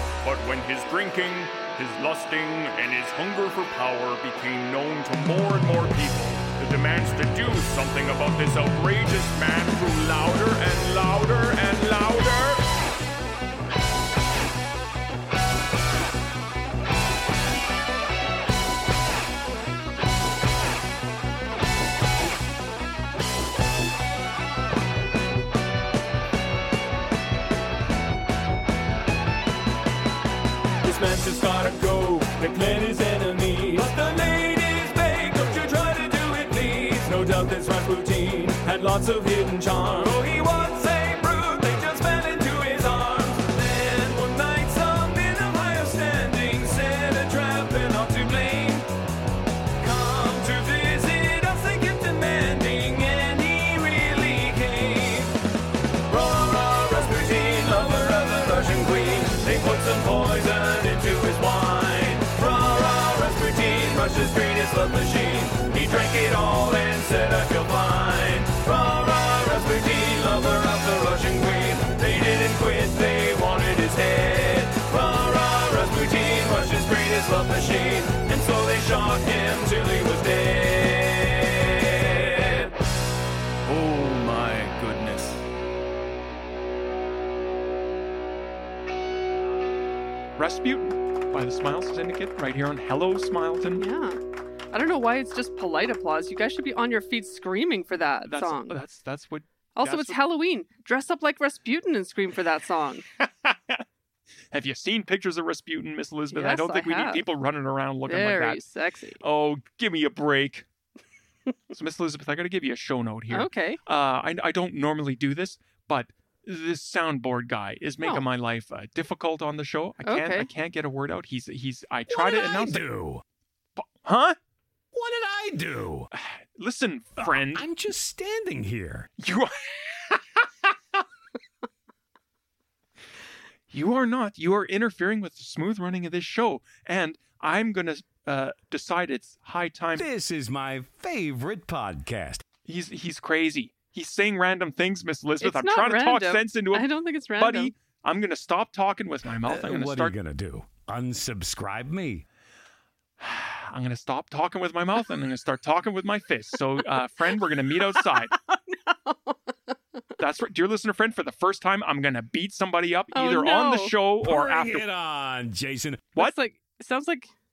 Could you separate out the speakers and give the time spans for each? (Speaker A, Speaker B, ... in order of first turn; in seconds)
Speaker A: 0.2-12.6, 30.8-48.9, 49.8-55.4, 56.1-82.7, 83.6-85.4
Speaker B: 90.4-93.8, 98.2-100.2, 103.2-103.8, 104.5-108.6, 109.2-110.7, 111.7-122.8, 123.8-124.4, 126.1-127.7, 129.2-130.4, 133.7-140.1, 142.6-150.2, 153.2-158.3, 160.2-164.8
Speaker C: 93.8-94.2, 94.7-98.8, 99.8-103.0, 106.3-107.2, 108.1-109.2, 113.3-113.8, 120.0-120.5, 145.4-147.7, 157.9-159.7, 163.1-163.9, 166.2-167.3
Speaker D: 122.1-123.2, 124.9-126.1, 127.2-129.1, 140.0-142.4, 149.4-152.2, 164.2-166.1